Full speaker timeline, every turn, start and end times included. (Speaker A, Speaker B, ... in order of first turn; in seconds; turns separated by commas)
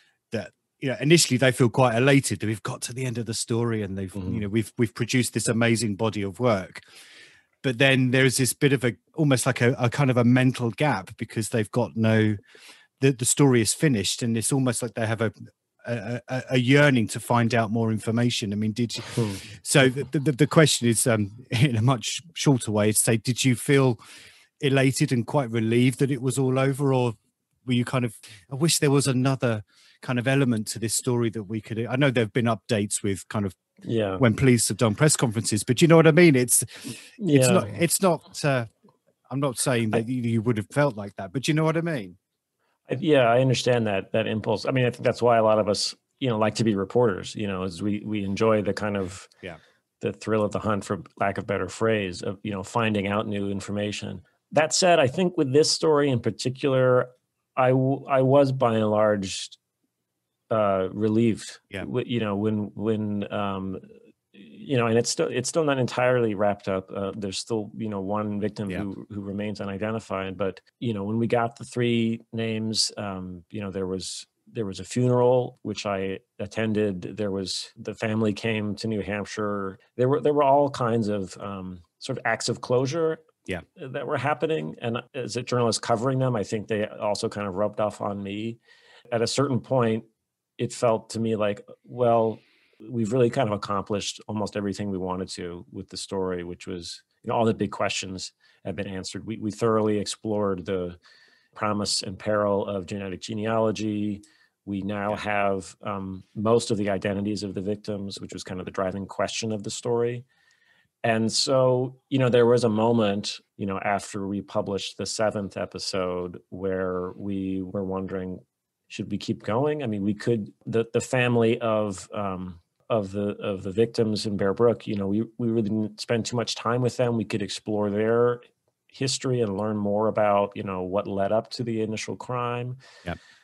Speaker A: 0.3-6.8, Speaker B: 4.2-4.4, Speaker A: 7.6-12.4, Speaker A: 13.0-24.0, Speaker B: 19.1-19.4, Speaker A: 24.6-33.5, Speaker B: 33.8-34.2, Speaker A: 34.2-38.7, Speaker B: 37.2-37.8, Speaker A: 39.3-42.2, Speaker B: 42.9-49.3, Speaker B: 50.0-59.6, Speaker B: 60.5-88.6, Speaker B: 89.1-90.1, Speaker B: 90.6-101.0, Speaker B: 101.5-110.2, Speaker B: 111.0-132.8